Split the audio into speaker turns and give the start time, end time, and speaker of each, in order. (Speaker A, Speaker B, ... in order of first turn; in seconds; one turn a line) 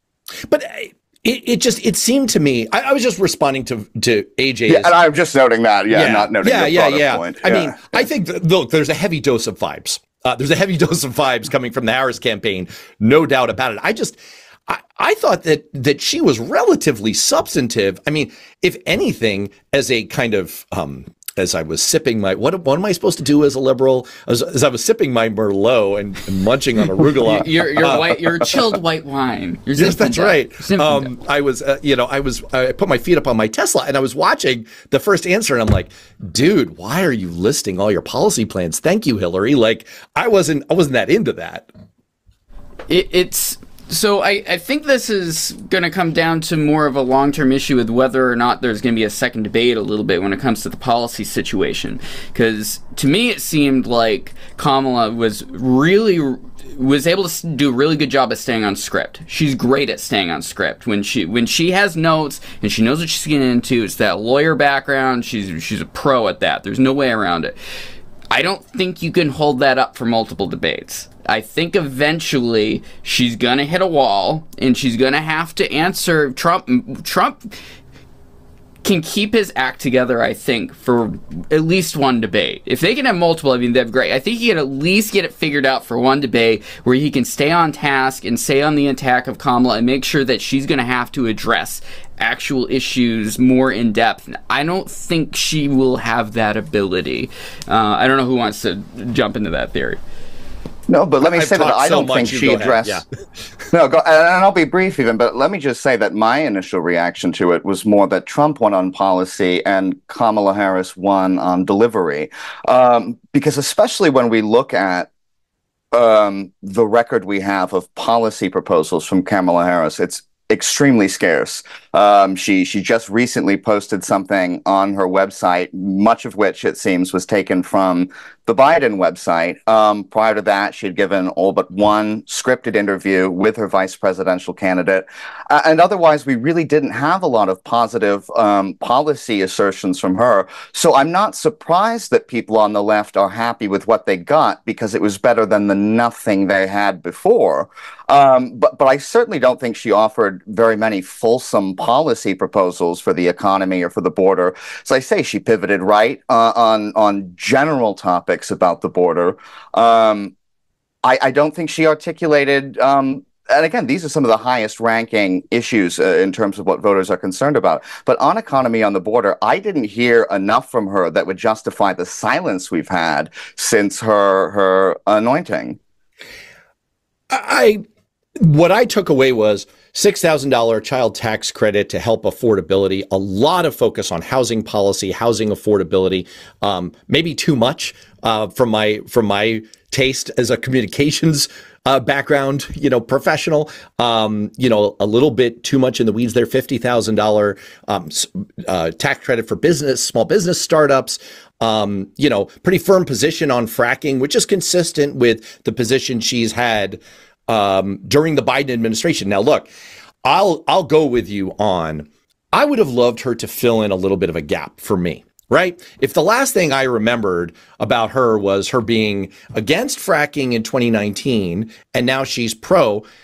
Speaker A: 0.5-4.9
Speaker B: 4.7-8.1
Speaker A: 5.9-14.2
Speaker A: 14.7-28.3
Speaker C: 27.2-31.1
Speaker A: 29.8-41.7
Speaker C: 42.9-67.5
Speaker C: 68.3-77.5
Speaker C: 78.8-100.0
Speaker B: 100.9-103.0
Speaker A: 101.2-103.0
Speaker B: 103.7-115.1
Speaker B: 115.9-160.3
Speaker B: 161.0-175.8
Speaker A: 177.3-177.8
Speaker A: 178.4-209.7
Speaker A: 210.2-223.1